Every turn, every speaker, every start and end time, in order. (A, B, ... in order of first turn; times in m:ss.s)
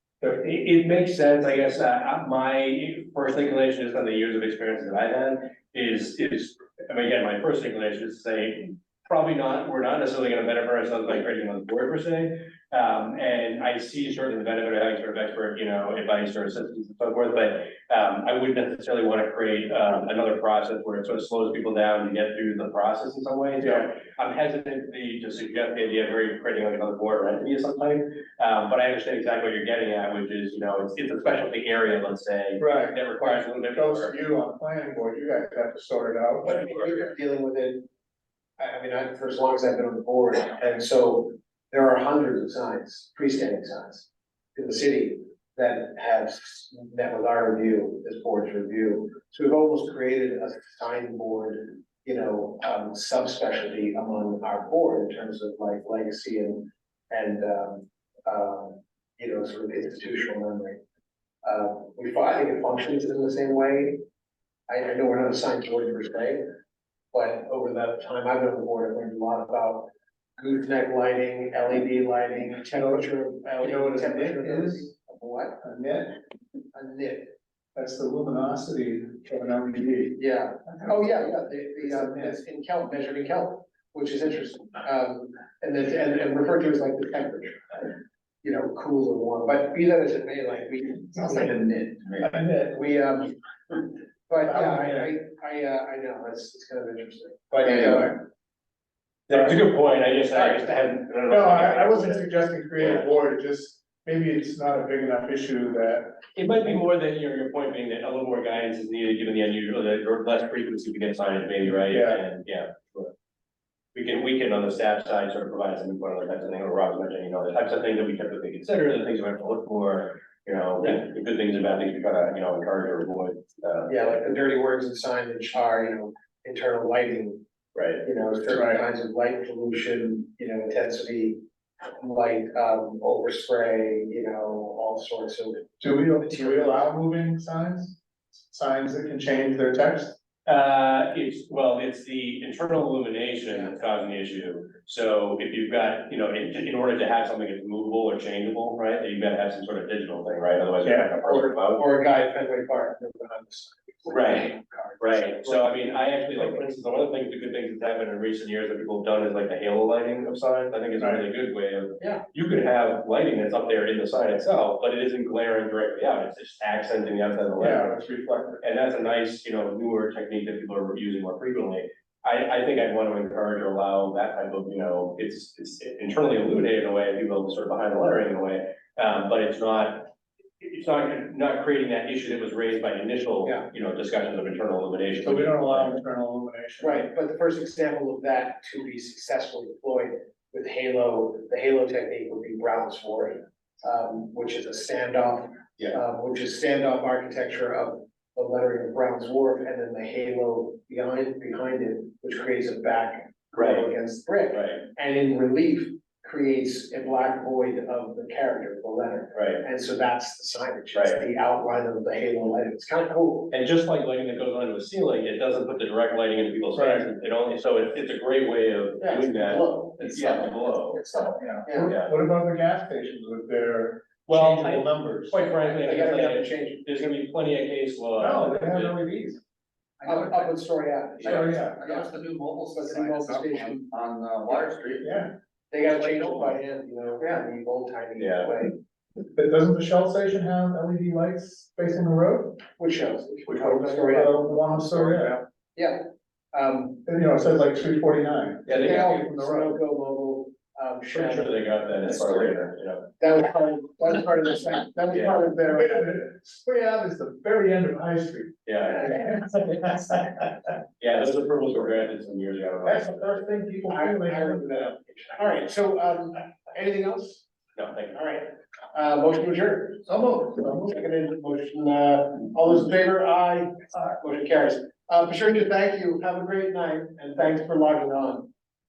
0:00.2-0:34.2 A
0:23.6-0:23.9 B
0:32.6-0:36.9 B
0:36.4-0:37.9 C
0:38.6-1:00.8 C
1:01.4-1:04.0 C
1:04.7-1:06.4 C
1:07.1-1:15.6 C
1:12.7-1:14.9 B
1:15.6-1:16.2 B
1:16.7-1:17.3 C
1:17.7-1:21.1 B
1:20.2-1:31.6 C
1:21.8-1:22.4 B
1:31.2-1:32.4 D
1:32.2-1:32.8 B
1:32.7-1:33.3 C
1:34.3-1:38.2 C
1:34.4-1:35.1 B
1:37.6-1:38.2 B
1:39.3-1:43.0 A
1:40.3-1:40.7 C
1:41.3-1:46.2 B
1:46.3-1:53.1 A
1:51.7-1:52.2 B
1:53.9-2:04.0 A
2:03.9-2:07.4 C
2:07.7-2:08.0 A
2:08.0-2:11.4 C
2:08.5-2:08.8 B
2:12.0-2:16.8 C
2:15.8-2:20.2 B
2:20.4-2:31.8 A
2:23.5-2:23.8 C
2:30.8-2:31.1 B
2:31.2-2:35.6 C
2:34.1-2:48.0 A
2:41.0-2:41.2 B
2:42.0-2:42.2 C
2:47.6-2:48.6 B
2:48.6-3:06.0 A
3:05.2-3:07.1 B
3:06.8-3:33.5 C
3:23.5-3:23.9 A
3:24.5-3:24.8 A
3:29.3-3:29.6 A
3:30.9-3:31.2 A
3:33.5-3:41.0 A
3:36.7-3:37.1 B
3:39.0-3:40.3 C
3:40.9-3:41.9 C
3:41.3-3:41.6 D
3:41.7-3:45.4 B
3:41.7-3:42.1 A
3:44.3-3:49.0 A
3:45.4-3:47.1 C
3:48.2-3:49.4 B
3:50.0-3:50.5 D
3:50.1-3:52.1 C
3:51.2-3:55.1 D
3:51.2-3:51.8 B
3:52.7-3:53.8 C
3:55.0-3:55.3 B
3:55.7-3:58.8 C
3:56.1-3:56.6 D
3:58.2-3:58.5 A
3:59.3-4:02.6 B
4:02.8-4:04.4 C
4:03.4-4:05.4 B
4:05.7-4:07.0 C
4:07.0-4:09.8 B
4:08.6-4:09.2 A
4:08.8-4:11.6 C
4:11.1-4:13.1 A
4:13.2-4:16.2 C
4:15.1-4:15.4 A
4:15.6-4:20.6 B
4:18.6-4:19.1 A
4:21.0-4:23.2 A
4:22.8-4:25.0 B
4:23.8-4:27.4 C
4:27.7-4:28.1 A
4:28.1-4:38.5 C